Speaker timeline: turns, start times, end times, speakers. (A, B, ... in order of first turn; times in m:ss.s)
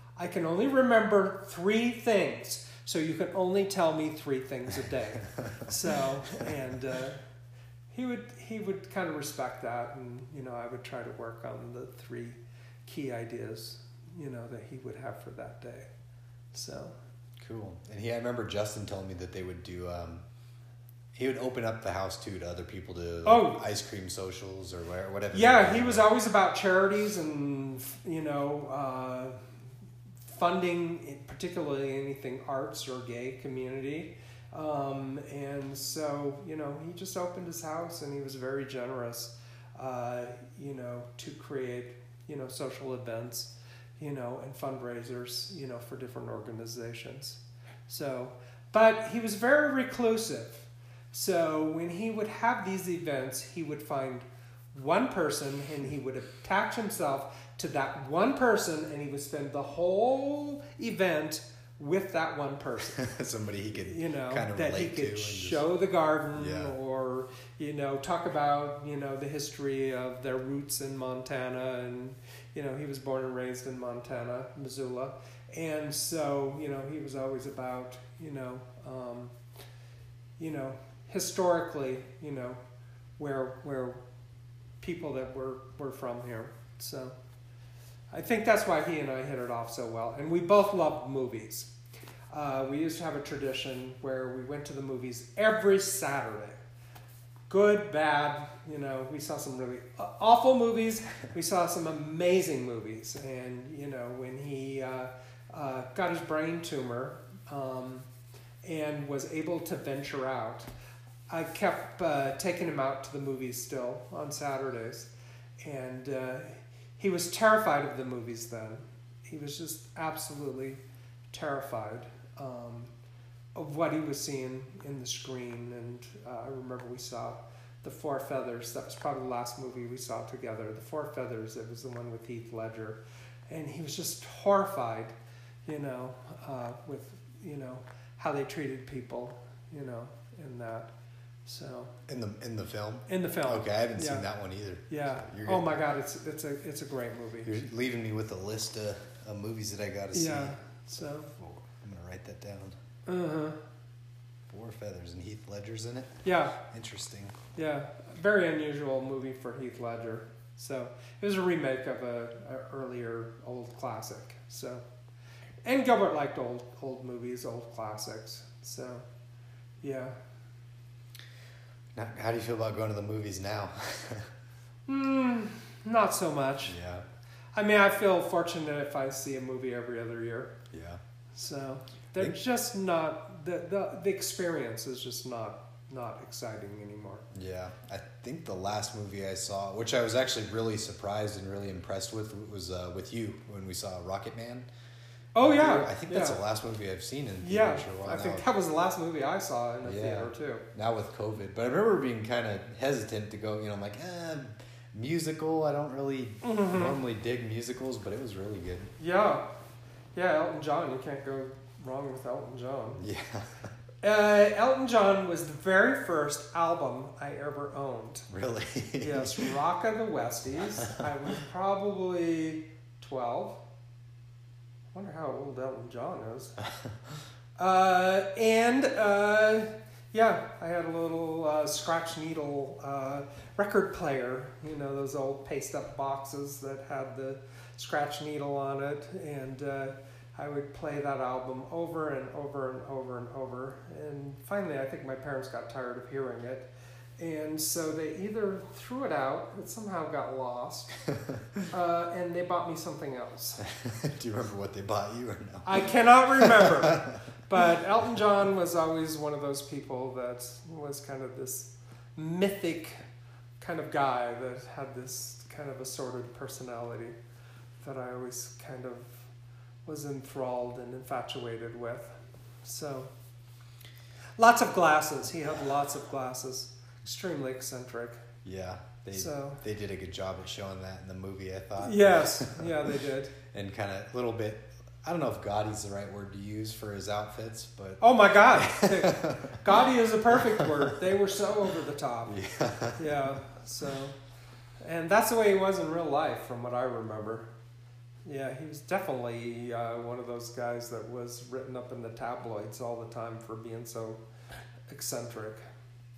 0:00.2-0:07.2 A
0:07.9-0:15.9 A
0:16.5-0:17.0 A
0:17.4-0:20.2 B
0:21.1-0:26.1 B
0:23.2-0:23.6 A
0:25.3-0:29.4 A
0:30.3-1:03.0 A
1:02.9-1:05.6 B
1:03.7-1:19.4 A
1:06.4-1:06.7 B
1:20.4-1:22.6 A
1:23.2-1:24.0 A
1:24.8-1:27.2 A
1:28.1-1:31.7 A
1:32.3-1:36.6 A
1:37.5-1:48.1 A
1:48.6-1:50.7 A
1:51.3-2:00.8 A
2:01.3-2:02.9 A
2:03.6-2:20.9 A
2:21.4-2:21.9 A
2:22.1-2:25.7 B
2:23.1-2:24.2 A
2:24.9-2:27.5 A
2:27.4-2:30.6 B
2:30.1-2:31.3 A
2:31.4-2:32.8 B
2:33.1-2:33.6 A
2:34.5-2:37.4 B
2:36.2-2:36.6 A
2:37.6-2:44.8 A
2:45.6-2:49.1 A
2:49.8-2:50.2 A
2:51.9-2:54.3 B
2:54.9-2:56.8 A
2:56.7-2:57.0 B
2:57.6-3:00.6 A
3:00.7-3:01.0 B
3:01.3-3:07.3 A
3:07.3-3:14.7 B
3:15.4-3:16.4 A
3:15.4-3:18.4 B
3:17.4-3:20.6 A
3:19.8-3:28.9 B
3:26.4-3:27.0 A
3:29.0-3:29.4 A
3:30.1-3:33.0 A
3:33.0-3:33.7 B
3:34.0-3:38.3 A
3:38.3-3:39.5 B
3:39.0-3:43.6 A
3:44.9-3:46.6 A
3:47.6-4:11.0 A
4:11.1-4:11.6 B
4:11.7-4:13.7 A
4:13.6-4:15.9 B
4:15.6-4:23.0 A
4:16.4-4:17.2 B
4:23.6-4:27.2 A
4:27.8-4:29.3 A
4:29.9-4:33.1 A
4:34.4-4:38.3 A
4:38.4-4:49.6 B
4:39.1-4:39.6 A
4:41.8-4:43.4 A
4:48.0-4:52.4 A
4:50.3-4:51.0 B
4:52.3-4:53.4 B
4:53.0-4:54.2 A
4:54.8-4:57.5 A
4:58.3-5:04.2 A
5:04.9-5:05.6 A